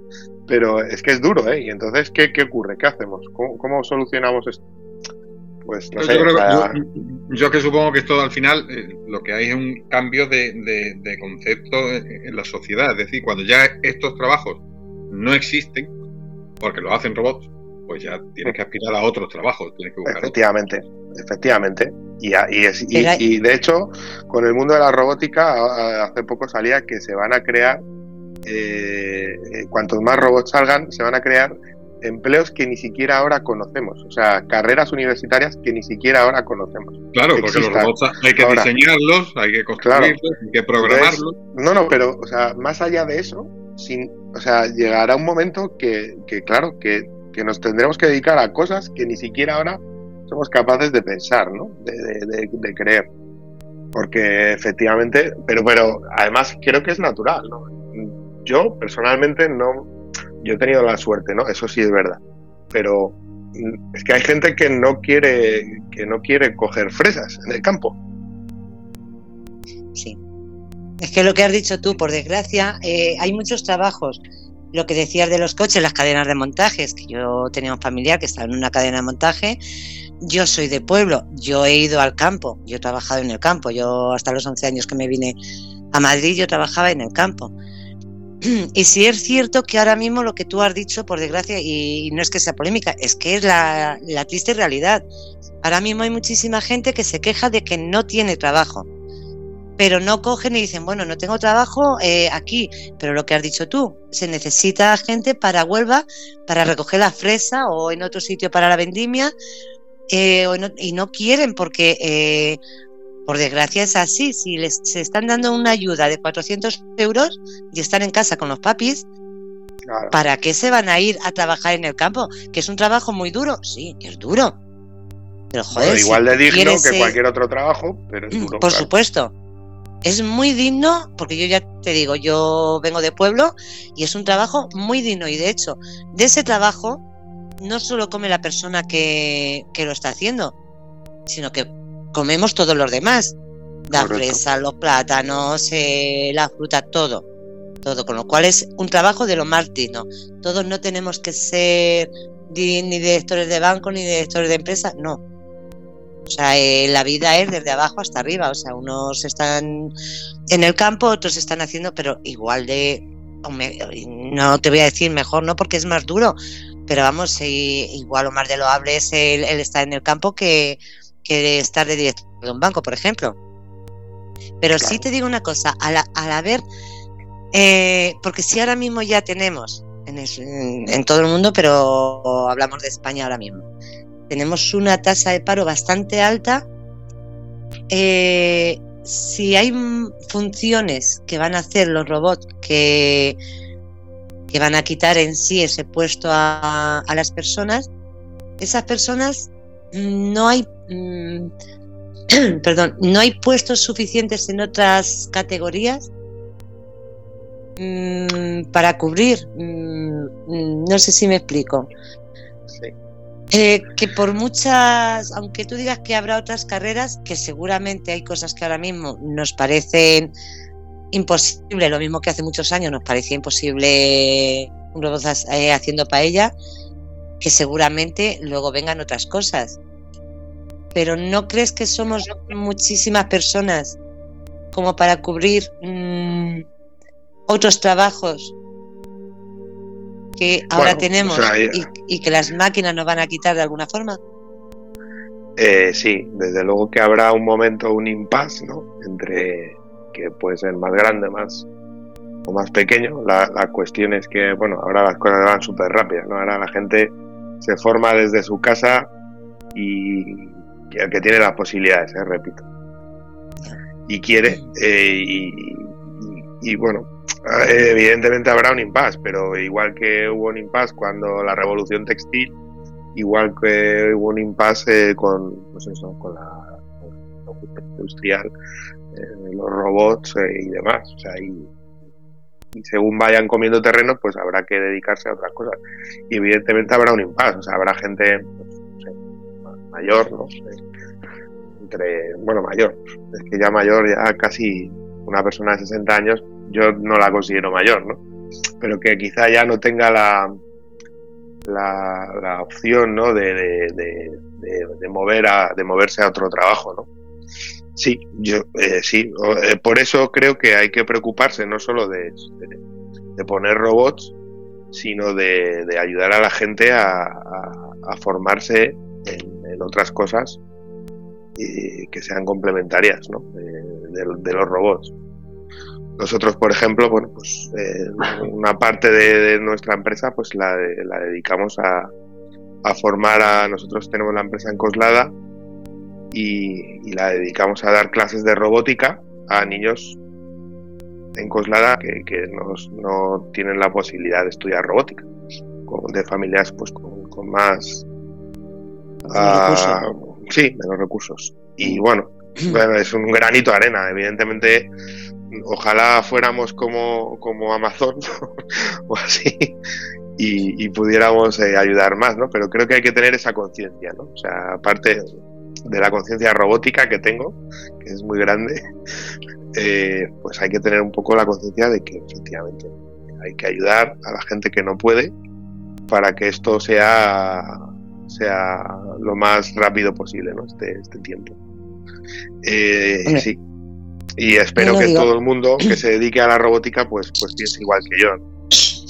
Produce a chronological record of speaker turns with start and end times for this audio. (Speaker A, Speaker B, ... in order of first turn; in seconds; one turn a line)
Speaker A: 0.5-4.6
Speaker A: 5.6-6.7
Speaker B: 6.0-15.9
Speaker B: 16.6-20.3
Speaker A: 20.1-27.8
Speaker C: 22.9-23.2
Speaker A: 28.4-38.7
Speaker B: 37.1-41.3
Speaker A: 39.8-40.1
Speaker A: 40.8-53.1
Speaker A: 53.9-59.9
Speaker A: 60.4-62.2
Speaker A: 62.7-68.0
Speaker C: 71.0-74.2
Speaker C: 74.7-79.6
Speaker C: 80.2-85.3
Speaker C: 85.9-87.5
Speaker C: 88.4-95.0
Speaker C: 95.6-98.8
Speaker C: 99.8-109.3
Speaker C: 110.1-112.6
Speaker C: 113.3-119.0
Speaker A: 119.9-120.2
Speaker C: 120.1-124.6
Speaker C: 125.5-127.2
Speaker A: 125.7-128.9
Speaker C: 128.3-129.3
Speaker C: 130.0-137.0
Speaker C: 137.6-140.5
Speaker C: 141.3-143.3
Speaker C: 143.9-147.2
Speaker A: 143.9-144.4
Speaker C: 147.8-155.2
Speaker C: 156.3-159.9
Speaker C: 160.5-173.3
Speaker C: 174.6-176.6
Speaker C: 177.5-183.7
Speaker C: 184.3-186.6
Speaker C: 187.9-193.4
Speaker C: 194.5-197.8
Speaker C: 198.6-201.5
Speaker C: 202.3-206.1
Speaker C: 207.8-211.9
Speaker C: 213.5-220.3
Speaker C: 221.1-226.5
Speaker C: 227.4-229.8
Speaker C: 230.9-234.0
Speaker C: 234.7-236.6
Speaker C: 237.5-238.5
Speaker C: 240.4-244.2
Speaker A: 240.8-241.8
Speaker A: 245.6-251.6
Speaker A: 252.5-259.1
Speaker A: 259.7-262.6
Speaker A: 264.1-272.5
Speaker A: 273.1-278.5
Speaker A: 279.1-281.7
Speaker A: 282.7-285.8
Speaker A: 286.3-289.1
Speaker A: 289.6-290.8
Speaker A: 291.8-298.2
Speaker A: 298.8-300.5
Speaker A: 301.6-307.1
Speaker A: 307.9-312.8
Speaker A: 313.4-314.3
Speaker A: 314.9-320.6
Speaker A: 321.6-325.1
Speaker A: 326.2-332.1
Speaker A: 332.8-335.3
Speaker A: 336.3-340.2
Speaker A: 341.4-345.3
Speaker A: 345.9-348.0
Speaker C: 349.2-350.0
Speaker A: 349.3-354.9
Speaker A: 355.5-359.7
Speaker A: 360.4-365.2
Speaker A: 365.9-368.8
Speaker A: 369.7-375.3
Speaker A: 376.1-381.6
Speaker A: 382.6-383.6
Speaker A: 384.4-388.4
Speaker C: 384.8-385.3